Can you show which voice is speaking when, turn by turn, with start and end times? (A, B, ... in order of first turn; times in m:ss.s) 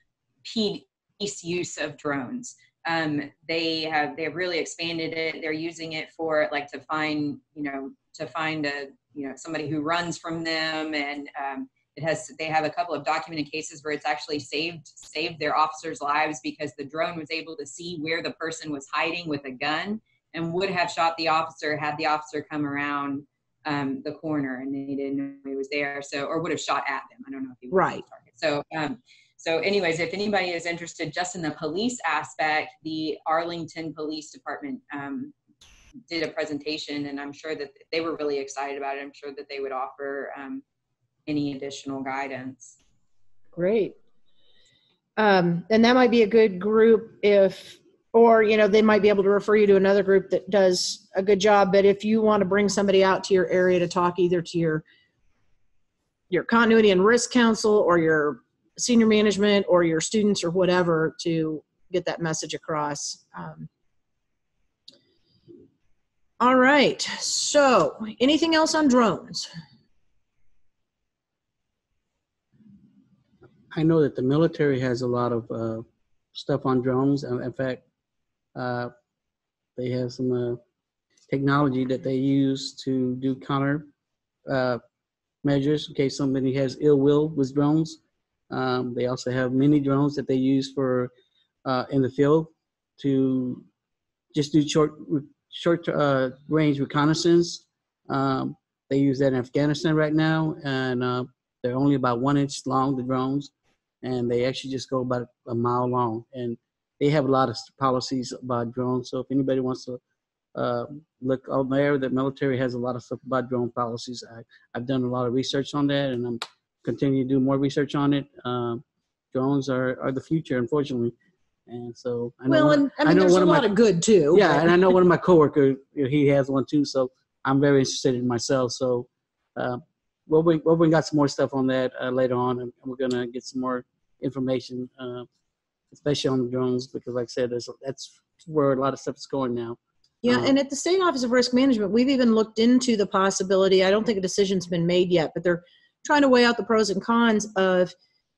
0:00.4-0:35.3 A
0:27.7-0:28.0 B
0:36.1-0:40.6 A
0:41.3-0:42.8 A
0:43.5-0:44.0 B
0:45.2-0:54.8 B
0:56.3-1:03.7 B
1:06.4-1:09.5 B
1:13.7-1:17.8 C
1:18.6-1:18.9 C
1:19.8-1:20.6 C
1:21.3-1:23.9 C
1:24.5-1:24.8 C
1:25.4-1:28.0 C
1:28.5-1:31.1 C
1:31.7-1:33.7 C
1:34.3-1:43.5 C
1:44.0-1:50.0 C
1:50.6-2:01.1 C
2:01.7-2:03.7 C
2:02.5-2:04.7 B
2:04.3-2:15.3 C
2:15.9-2:20.5 C
2:20.2-2:27.9 B